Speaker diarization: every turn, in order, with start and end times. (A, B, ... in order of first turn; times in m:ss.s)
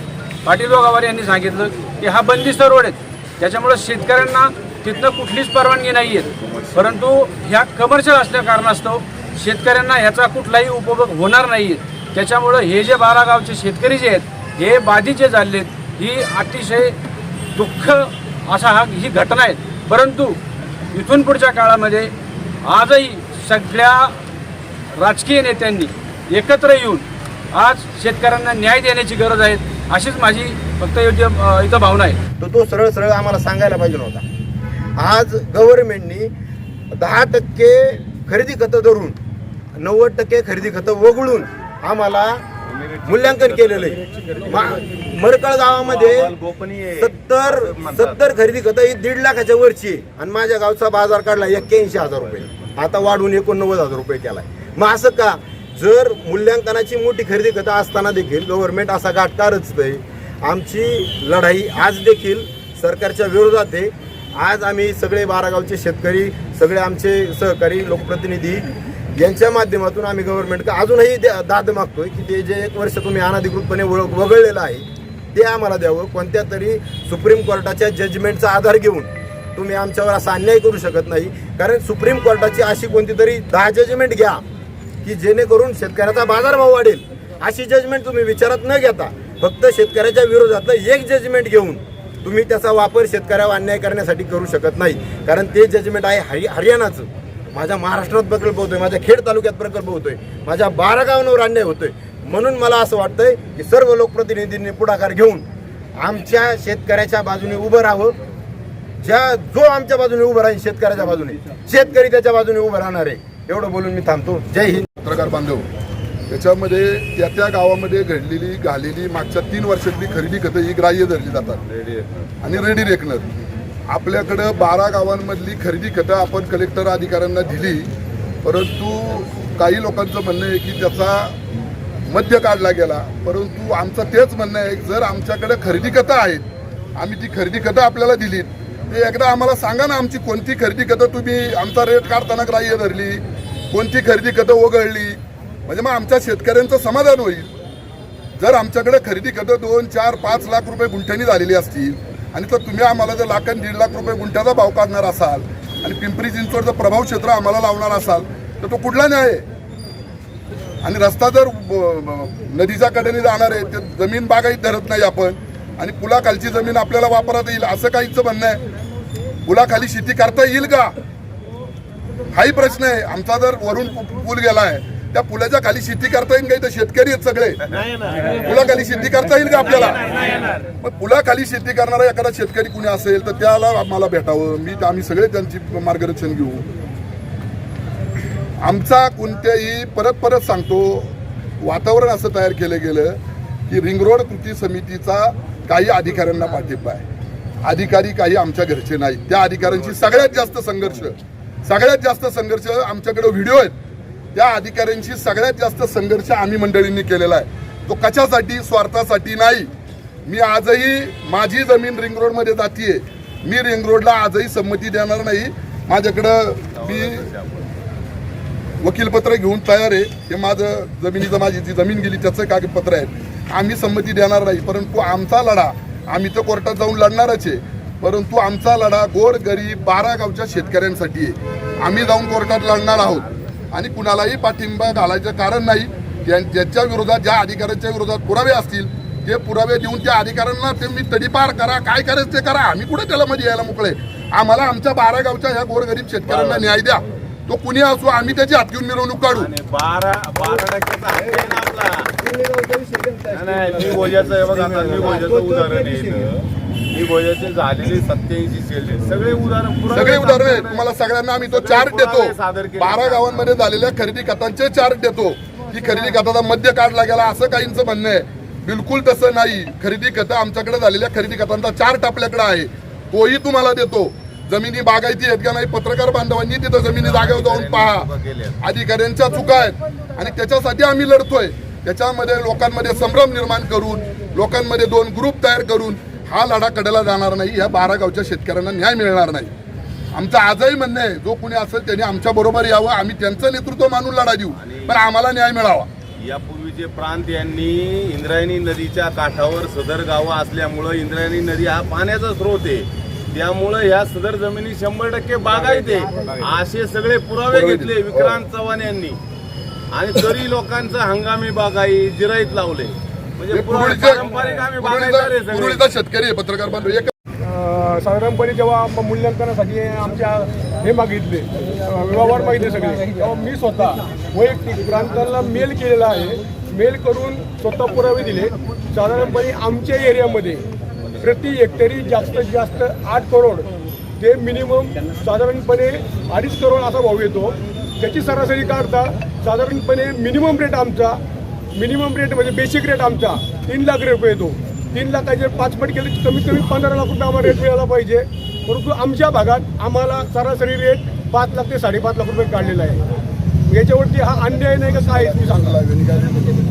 0:00.4-0:17.0 A
0:06.4-0:06.9 B
0:17.6-0:20.4 A
0:20.9-0:22.1 A
0:22.6-0:24.1 A
0:25.0-0:32.2 A
0:32.4-0:34.2 C
0:35.0-0:36.3 C
0:36.9-0:39.2 C
0:39.8-0:42.4 C
0:42.7-0:44.8 B
0:43.0-0:46.3 C
0:45.7-0:48.2 B
0:47.0-1:24.4 C
1:25.0-1:45.4 C
1:46.0-1:48.1 C
1:49.0-1:54.9 C
1:55.0-1:55.7 D
1:56.3-2:01.6 D
2:01.7-2:02.3 B
2:02.4-2:03.3 D
2:03.9-2:07.9 D
2:08.4-2:11.4 D
2:12.1-2:16.4 D
2:17.0-2:27.5 D
2:28.4-2:39.4 D
2:40.8-2:48.6 D
2:49.4-2:50.9 D
2:52.3-2:57.6 D
2:58.4-3:00.0 D
3:00.8-3:06.7 D
3:08.6-3:13.2 D
3:13.7-3:17.0 D
3:17.6-3:23.7 D
3:19.7-3:20.4 B
3:24.3-3:29.7 D
3:30.2-3:37.3 D
3:36.8-3:37.6 B
3:38.8-4:09.5 D
4:06.3-4:06.8 B
4:09.3-4:12.1 B
4:11.2-4:11.6 C
4:12.2-4:16.3 C
4:13.3-4:20.8 B
4:19.9-4:38.1 D
4:21.4-4:23.5 B
4:37.0-4:38.6 B
4:38.6-4:49.5 D
4:50.1-4:55.9 D
4:54.6-4:55.0 B
4:56.2-5:09.2 B
5:05.7-5:06.3 C
5:07.5-5:08.4 D
5:09.9-5:15.8 B
5:13.5-5:17.1 D
5:17.4-5:30.6 E
5:31.2-5:41.2 E
5:41.8-5:53.0 E
5:53.7-5:55.8 E
5:55.7-5:56.4 D